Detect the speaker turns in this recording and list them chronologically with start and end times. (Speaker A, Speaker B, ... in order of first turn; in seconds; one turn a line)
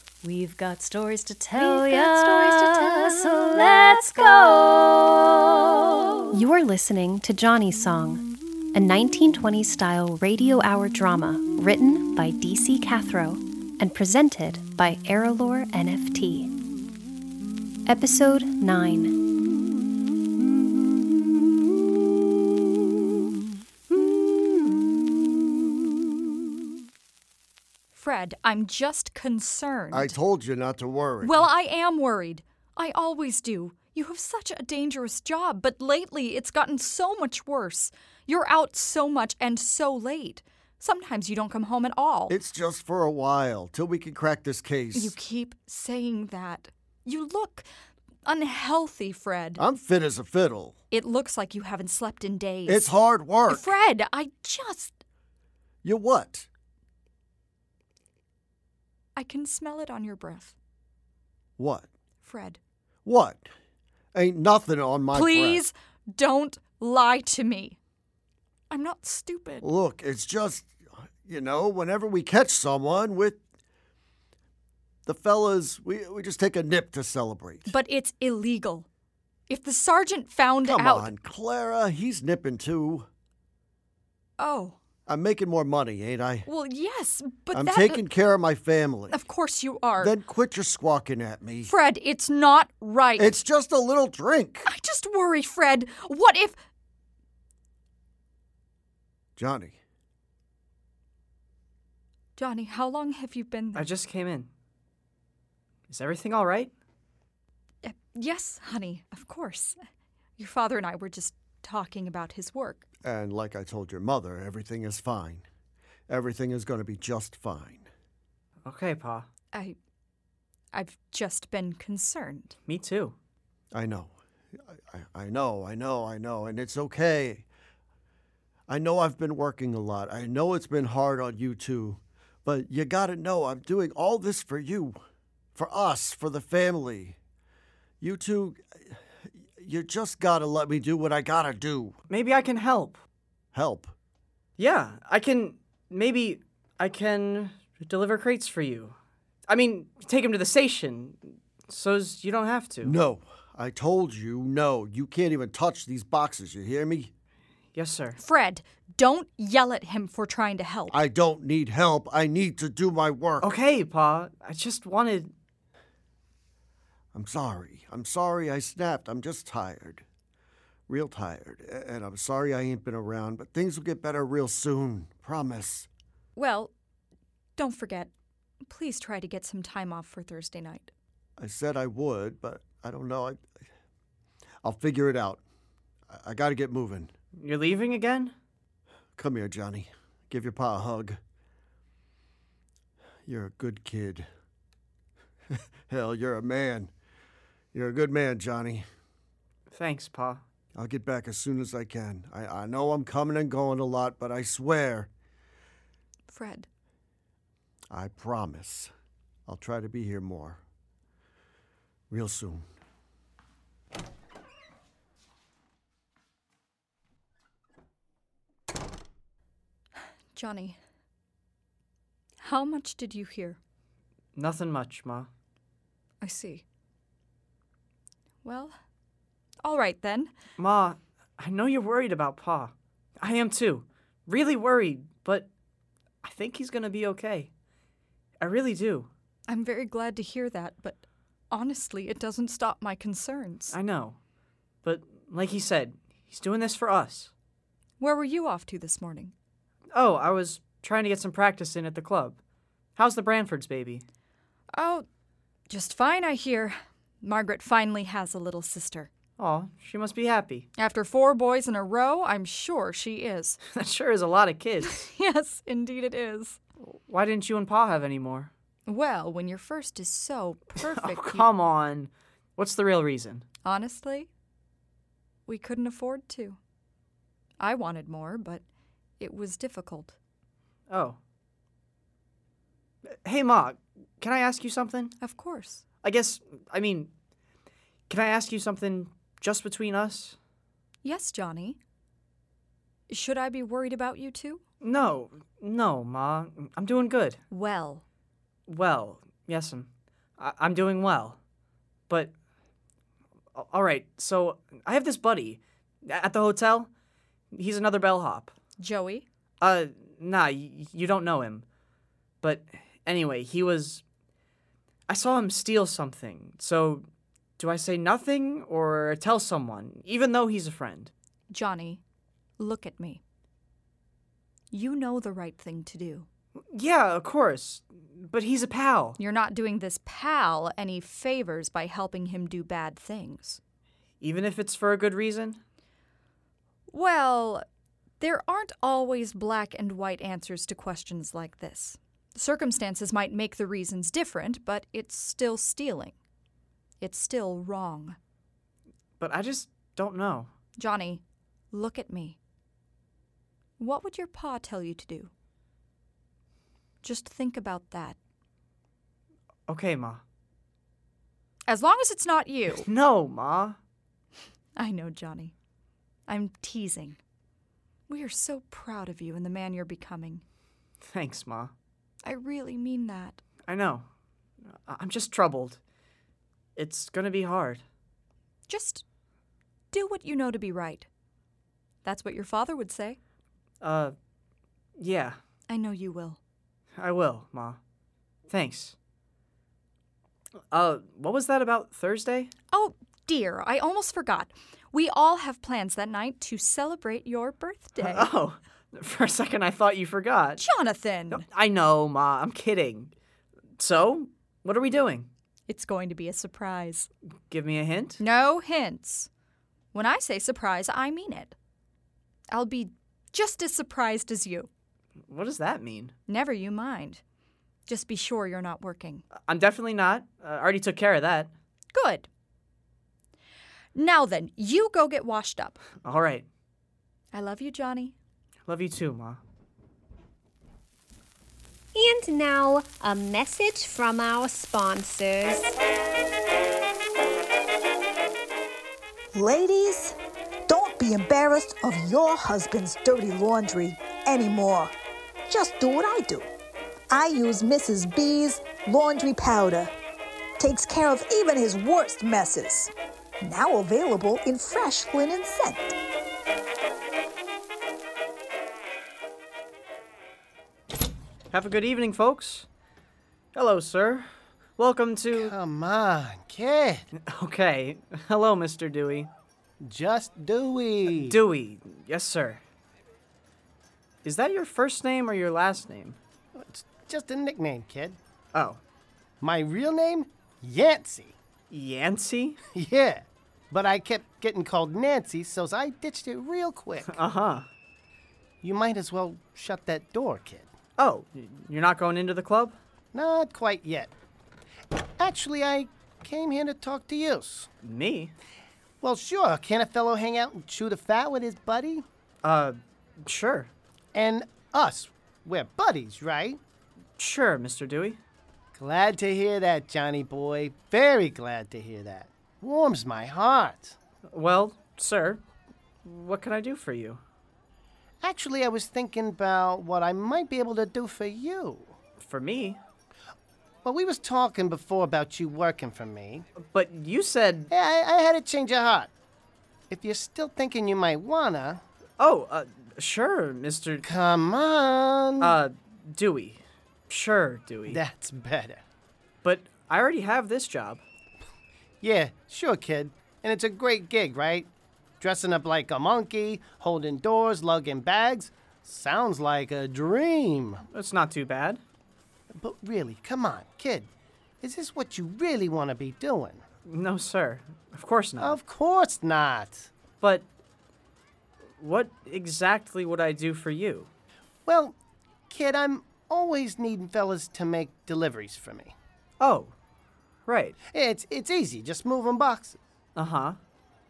Speaker A: 0.2-4.8
Speaker A: 6.3-8.2
Speaker A: 8.7-16.5
Speaker A: 17.9-19.1
Speaker B: 27.9-30.2
Speaker C: 29.9-31.4
Speaker B: 31.2-42.4
Speaker C: 42.3-45.1
Speaker B: 44.9-47.7
Speaker B: 48.2-49.6
Speaker C: 49.6-50.8
Speaker B: 50.9-53.0
Speaker C: 52.6-53.7
Speaker B: 53.5-55.0
Speaker C: 55.8-56.5
Speaker B: 59.1-60.5
Speaker C: 61.6-61.9
Speaker B: 62.2-62.6
Speaker C: 63.0-63.5
Speaker C: 64.1-65.6
Speaker B: 65.1-67.8
Speaker B: 68.7-69.7
Speaker C: 69.6-70.7
Speaker C: 71.2-73.4
Speaker C: 75.0-77.7
Speaker B: 77.7-78.9
Speaker B: 79.5-81.1
Speaker C: 80.6-83.0
Speaker B: 84.4-84.8
Speaker C: 85.1-86.5
Speaker B: 86.5-88.0
Speaker C: 87.5-89.2
Speaker B: 89.1-90.2
Speaker C: 90.0-91.7
Speaker B: 91.7-93.4
Speaker C: 93.2-94.7
Speaker B: 94.6-96.5
Speaker C: 99.4-99.8
Speaker B: 102.3-103.9
Speaker D: 103.7-104.5
Speaker D: 105.9-106.7
Speaker B: 107.8-109.8
Speaker B: 110.4-112.8
Speaker C: 113.0-115.4
Speaker C: 116.1-117.9
Speaker D: 118.7-119.2
Speaker B: 119.5-119.8
Speaker B: 120.7-122.6
Speaker D: 122.7-123.1
Speaker C: 123.7-124.1
Speaker C: 124.7-127.4
Speaker C: 128.7-135.0
Speaker C: 135.5-137.2
Speaker C: 138.0-139.0
Speaker C: 139.6-142.0
Speaker D: 142.1-143.0
Speaker C: 143.5-143.9
Speaker D: 144.6-148.9
Speaker D: 149.5-152.9
Speaker C: 152.8-157.1
Speaker D: 157.7-158.2
Speaker B: 158.2-161.0
Speaker C: 160.9-163.5
Speaker D: 163.4-165.3
Speaker C: 167.1-170.0
Speaker C: 170.9-175.9
Speaker B: 176.3-176.7
Speaker B: 177.6-178.1
Speaker B: 178.7-180.9
Speaker C: 181.4-183.4
Speaker C: 184.6-185.4
Speaker C: 186.1-187.1
Speaker D: 187.3-188.3
Speaker C: 189.2-191.2
Speaker C: 193.2-194.3
Speaker C: 195.9-196.9
Speaker C: 197.7-198.8
Speaker D: 199.7-200.4
Speaker C: 200.7-205.1
Speaker B: 206.3-206.7
Speaker C: 207.9-208.9
Speaker C: 209.5-210.6
Speaker C: 212.1-212.6
Speaker B: 220.3-220.8
Speaker B: 222.4-223.6
Speaker D: 224.3-225.3
Speaker B: 226.2-226.6
Speaker B: 228.4-228.7
Speaker B: 229.6-230.3
Speaker D: 230.6-235.5
Speaker D: 236.2-237.5
Speaker D: 238.4-239.1
Speaker B: 239.5-243.8
Speaker D: 243.7-244.2
Speaker D: 244.8-247.3
Speaker B: 248.0-249.3
Speaker D: 249.9-252.4
Speaker D: 252.9-254.0
Speaker B: 254.7-255.0
Speaker B: 255.7-259.1
Speaker D: 259.4-260.7
Speaker B: 260.8-263.6
Speaker D: 263.7-265.1
Speaker B: 264.8-266.6
Speaker D: 266.8-268.5
Speaker B: 268.9-271.5
Speaker D: 270.8-273.4
Speaker B: 273.6-274.3
Speaker B: 275.4-276.6
Speaker B: 277.6-278.6
Speaker B: 279.2-280.2
Speaker D: 280.9-281.2
Speaker D: 283.2-285.1
Speaker B: 285.2-285.8
Speaker D: 286.0-287.1
Speaker D: 288.1-290.4
Speaker B: 291.0-291.8
Speaker B: 293.1-294.6
Speaker D: 294.8-297.4
Speaker B: 297.5-298.0
Speaker D: 298.7-301.4
Speaker D: 303.5-306.9
Speaker D: 307.5-308.5
Speaker B: 308.8-309.2
Speaker D: 309.6-311.6
Speaker D: 312.4-314.0
Speaker D: 315.1-317.0
Speaker D: 317.6-321.1
Speaker B: 321.5-322.0
Speaker B: 322.6-323.2
Speaker B: 324.7-326.3
Speaker D: 326.7-329.2
Speaker B: 329.2-333.6
Speaker D: 334.2-335.6
Speaker B: 336.9-337.6
Speaker B: 338.2-346.1
Speaker B: 347.0-348.2
Speaker D: 349.2-350.5
Speaker B: 350.8-352.4
Speaker B: 353.8-355.3
Speaker B: 357.0-358.2
Speaker D: 359.7-360.2
Speaker B: 361.6-362.9
Speaker D: 362.7-363.8
Speaker B: 364.8-365.5
Speaker B: 366.3-367.2
Speaker B: 368.1-370.4
Speaker D: 371.1-371.7
Speaker B: 372.2-373.4
Speaker D: 373.6-374.1
Speaker D: 374.9-375.8
Speaker D: 376.8-377.8
Speaker B: 378.7-379.0
Speaker B: 379.9-381.1
Speaker B: 382.0-383.2
Speaker D: 383.8-384.1
Speaker D: 385.0-385.4
Speaker B: 385.7-386.4
Speaker D: 387.0-387.8
Speaker D: 388.5-388.9
Speaker D: 390.7-392.5
Speaker B: 392.7-398.3
Speaker D: 398.0-400.6
Speaker B: 400.6-401.4
Speaker D: 401.3-403.1
Speaker D: 403.8-405.3
Speaker B: 405.7-407.1
Speaker D: 407.5-408.2
Speaker B: 408.2-409.3
Speaker B: 409.9-411.5
Speaker B: 412.5-414.7
Speaker D: 415.3-416.1
Speaker B: 416.3-417.2
Speaker B: 417.9-419.2
Speaker D: 419.4-421.5
Speaker B: 421.9-422.3
Speaker B: 423.9-425.8
Speaker D: 426.0-426.4
Speaker B: 427.3-428.1
Speaker D: 428.6-429.4
Speaker A: 431.9-435.7
Speaker E: 439.3-440.1
Speaker E: 440.7-444.9
Speaker E: 445.5-446.5
Speaker E: 447.1-449.9
Speaker E: 450.6-452.9
Speaker E: 453.4-455.9
Speaker D: 461.5-462.6
Speaker D: 463.5-464.3
Speaker D: 464.8-465.5
Speaker F: 465.3-467.1
Speaker D: 467.2-469.3
Speaker F: 469.8-471.4
Speaker D: 471.1-472.6
Speaker D: 474.2-476.2
Speaker F: 476.5-478.2
Speaker D: 478.5-478.8
Speaker F: 479.4-481.3
Speaker D: 481.7-482.6
Speaker F: 482.7-487.2
Speaker D: 487.1-487.6
Speaker F: 488.6-490.7
Speaker D: 491.0-492.8
Speaker F: 493.1-494.1
Speaker F: 495.2-497.7
Speaker D: 497.8-498.3
Speaker F: 499.0-502.0
Speaker D: 502.4-503.7
Speaker F: 504.1-506.6
Speaker D: 507.2-508.2
Speaker F: 508.8-514.0
Speaker D: 514.3-515.4
Speaker D: 516.0-517.2
Speaker F: 518.2-521.9
Speaker D: 522.2-522.8
Speaker F: 523.8-526.5
Speaker D: 526.6-527.7
Speaker F: 527.7-529.1
Speaker F: 529.9-531.8
Speaker D: 532.2-534.1
Speaker F: 534.0-535.6
Speaker D: 535.4-538.0
Speaker F: 537.9-538.8
Speaker D: 539.4-541.0
Speaker F: 542.0-550.8
Speaker D: 550.9-551.8
Speaker F: 552.5-554.1
Speaker F: 554.6-556.6
Speaker D: 556.9-558.6
Speaker F: 558.4-559.9
Speaker D: 560.2-560.5
Speaker D: 561.8-564.1
Speaker F: 564.6-565.0
Speaker F: 565.5-568.9
Speaker D: 569.4-569.7
Speaker D: 570.5-570.8
Speaker F: 570.9-572.8
Speaker D: 573.1-573.6